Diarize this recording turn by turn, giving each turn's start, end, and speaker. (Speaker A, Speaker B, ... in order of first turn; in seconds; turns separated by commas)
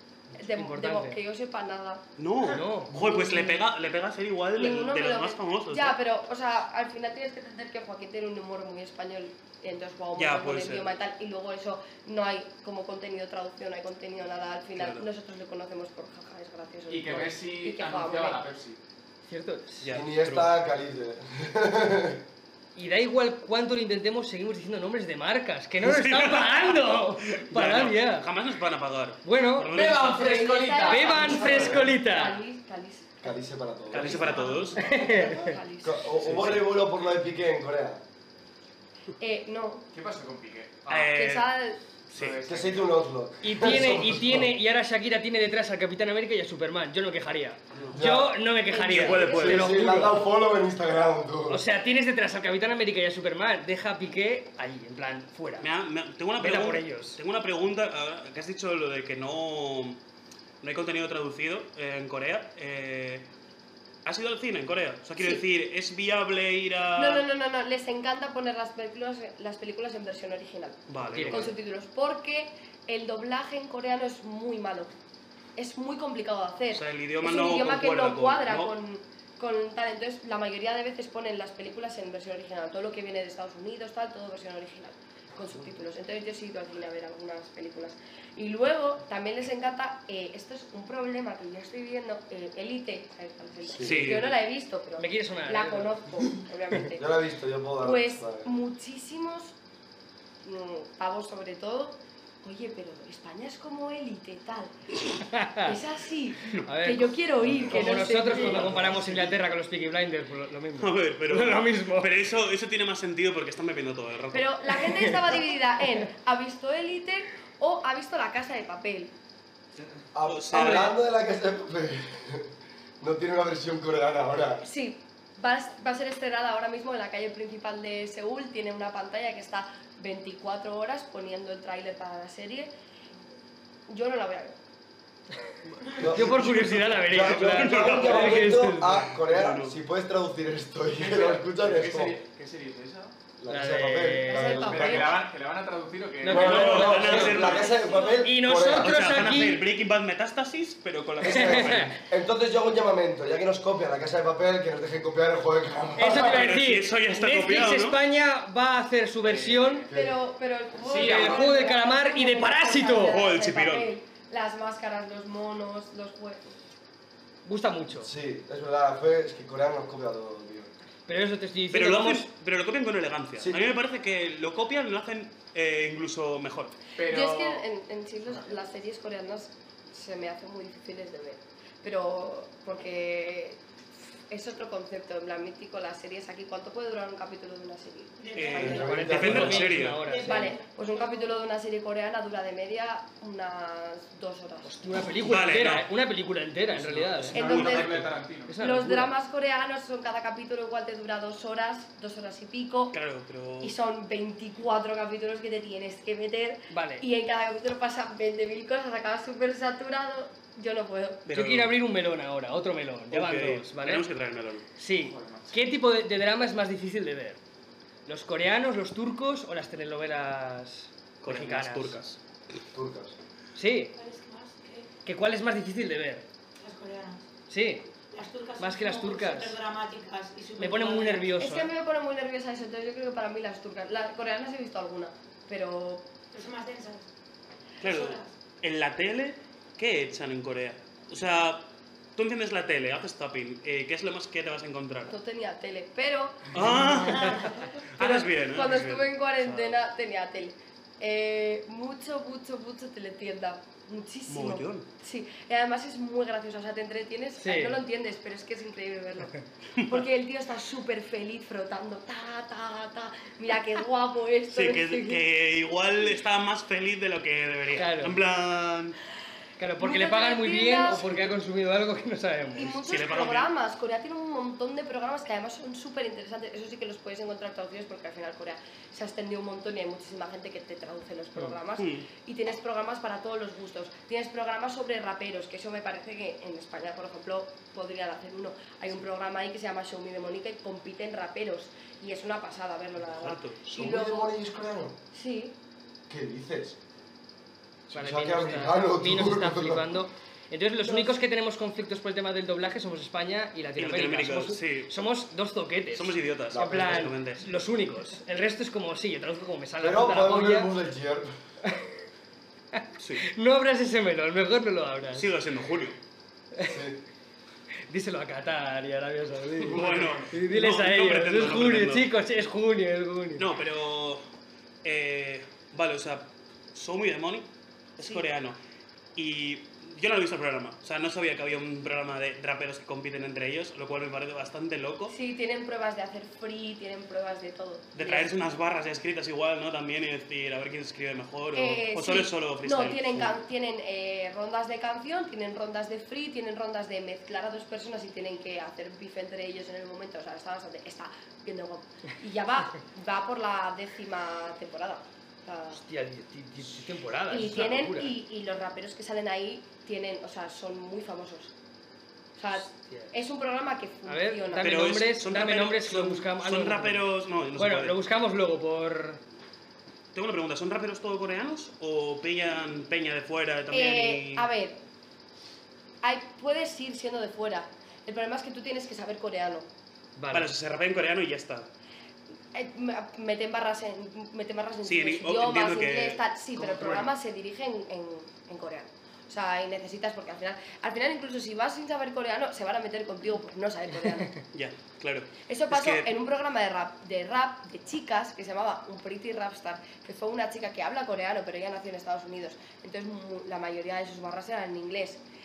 Speaker A: 0.3-2.0, Speaker B: 0.4-1.2, Speaker C: 2.2-6.0, Speaker B: 2.4-2.9, Speaker A: 2.9-3.7, Speaker A: 4.5-18.4, Speaker C: 10.1-10.9, Speaker C: 14.8-15.1, Speaker D: 16.9-18.8, Speaker B: 19.3-19.9, Speaker C: 19.8-20.5, Speaker E: 19.9-22.2, Speaker B: 22.8-28.3, Speaker C: 25.8-30.3, Speaker B: 29.2-29.9, Speaker D: 29.7-31.8, Speaker A: 30.0-33.3, Speaker B: 30.9-32.4, Speaker E: 33.2-34.4, Speaker C: 33.9-34.8, Speaker A: 33.9-36.1, Speaker B: 34.8-35.5, Speaker E: 35.8-38.0, Speaker C: 36.2-36.7, Speaker A: 39.2-39.9, Speaker D: 39.9-41.2, Speaker C: 40.9-41.5, Speaker A: 41.1-41.8, Speaker D: 42.1-43.0, Speaker C: 42.1-42.4, Speaker E: 42.5-44.5, Speaker B: 43.4-50.2, Speaker E: 47.9-48.4, Speaker A: 48.7-49.6, Speaker C: 48.9-49.6, Speaker E: 49.3-51.6, Speaker B: 51.5-55.7, Speaker C: 55.6-60.0, Speaker B: 56.4-57.2, Speaker C: 60.6-63.3, Speaker C: 64.0-67.3, Speaker A: 65.2-65.4, Speaker A: 67.0-74.9, Speaker C: 70.9-71.5, Speaker B: 71.0-71.5, Speaker A: 75.6-97.1, Speaker C: 76.7-78.7, Speaker E: 93.7-94.2, Speaker C: 93.8-94.4, Speaker B: 95.0-96.0, Speaker E: 96.9-98.5, Speaker A: 97.8-99.5, Speaker A: 100.4-105.0, Speaker B: 105.3-105.8, Speaker A: 105.6-109.0, Speaker B: 106.6-112.1, Speaker E: 108.6-109.0, Speaker C: 110.8-114.9, Speaker A: 114.3-119.1, Speaker E: 120.1-124.7, Speaker C: 120.2-120.9, Speaker A: 124.6-132.7, Speaker A: 133.9-134.6, Speaker C: 135.9-139.8, Speaker E: 135.9-142.2, Speaker B: 136.0-139.0, Speaker D: 140.9-143.1, Speaker E: 143.4-145.2, Speaker B: 143.5-144.6, Speaker A: 144.2-145.2, Speaker D: 144.5-147.7, Speaker B: 146.2-147.2, Speaker C: 146.3-147.8, Speaker E: 146.3-149.0, Speaker F: 147.8-148.2, Speaker B: 148.2-149.6, Speaker C: 148.6-151.9, Speaker E: 151.2-156.5, Speaker B: 151.2-151.9, Speaker B: 156.0-159.9, Speaker C: 156.1-158.0, Speaker D: 159.2-159.9, Speaker E: 159.9-160.2, Speaker A: 159.9-166.5, Speaker D: 160.8-161.6, Speaker B: 160.9-163.2, Speaker C: 163.0-163.9, Speaker B: 167.4-168.1, Speaker E: 168.0-170.7, Speaker B: 171.1-172.3, Speaker C: 171.7-176.8, Speaker E: 173.4-173.7, Speaker D: 177.0-177.7, Speaker A: 177.0-183.6, Speaker A: 184.3-188.9, Speaker F: 188.2-189.1, Speaker C: 188.3-190.1, Speaker E: 188.6-189.7, Speaker B: 188.6-190.6, Speaker F: 189.9-191.4, Speaker A: 190.2-194.8, Speaker B: 194.6-197.8, Speaker C: 195.2-195.9, Speaker C: 197.3-198.1, Speaker D: 197.3-198.6, Speaker A: 197.3-198.0, Speaker B: 198.5-199.1, Speaker A: 198.6-203.0, Speaker C: 202.9-203.8, Speaker A: 203.6-211.3, Speaker B: 206.7-207.1, Speaker C: 211.3-211.8, Speaker B: 211.3-214.1, Speaker C: 213.1-214.7, Speaker B: 214.8-217.4, Speaker D: 214.9-215.6, Speaker B: 218.1-222.0, Speaker C: 221.2-222.2, Speaker E: 222.7-223.2, Speaker B: 223.6-223.9, Speaker F: 223.9-224.9, Speaker B: 225.1-226.3, Speaker F: 226.6-227.3, Speaker B: 227.5-227.9, Speaker F: 228.1-231.4, Speaker B: 228.6-229.6, Speaker B: 230.6-231.7, Speaker A: 231.4-236.1, Speaker F: 236.3-237.1, Speaker C: 237.8-245.1, Speaker F: 237.8-238.3, Speaker A: 245.1-265.2, Speaker C: 246.5-249.8, Speaker F: 246.9-247.6, Speaker C: 254.3-254.9, Speaker B: 257.4-257.8, Speaker C: 259.8-260.0, Speaker C: 264.5-268.9, Speaker B: 267.8-268.2, Speaker B: 269.6-272.8, Speaker A: 269.8-271.3, Speaker A: 272.6-294.3, Speaker C: 272.8-273.5, Speaker C: 281.8-282.1, Speaker C: 293.0-293.7, Speaker E: 293.7-295.0, Speaker A: 295.1-295.6, Speaker E: 296.1-296.8, Speaker E: 297.9-299.9, Speaker B: 297.9-310.7, Speaker A: 300.8-301.1, Speaker C: 303.8-305.1, Speaker C: 305.9-307.5, Speaker E: 306.5-307.1, Speaker E: 309.8-311.3, Speaker B: 312.8-315.3, Speaker C: 313.0-313.2, Speaker C: 315.1-316.0, Speaker E: 316.6-317.0, Speaker B: 317.9-323.5, Speaker C: 319.6-322.1, Speaker E: 319.8-320.1, Speaker C: 323.4-324.2, Speaker C: 324.8-328.6, Speaker C: 329.1-335.1, Speaker A: 335.1-338.3, Speaker C: 337.9-343.4, Speaker A: 341.6-355.8, Speaker B: 355.7-358.1, Speaker A: 357.3-361.5, Speaker A: 362.4-364.9, Speaker B: 362.7-363.1, Speaker B: 364.1-369.2, Speaker C: 364.6-368.0, Speaker C: 370.1-374.5, Speaker A: 373.7-374.8, Speaker A: 376.0-379.7, Speaker B: 380.2-380.5, Speaker C: 380.3-381.7, Speaker A: 382.5-394.4, Speaker C: 384.8-387.1, Speaker B: 386.6-387.0, Speaker C: 394.5-396.1, Speaker A: 395.4-405.2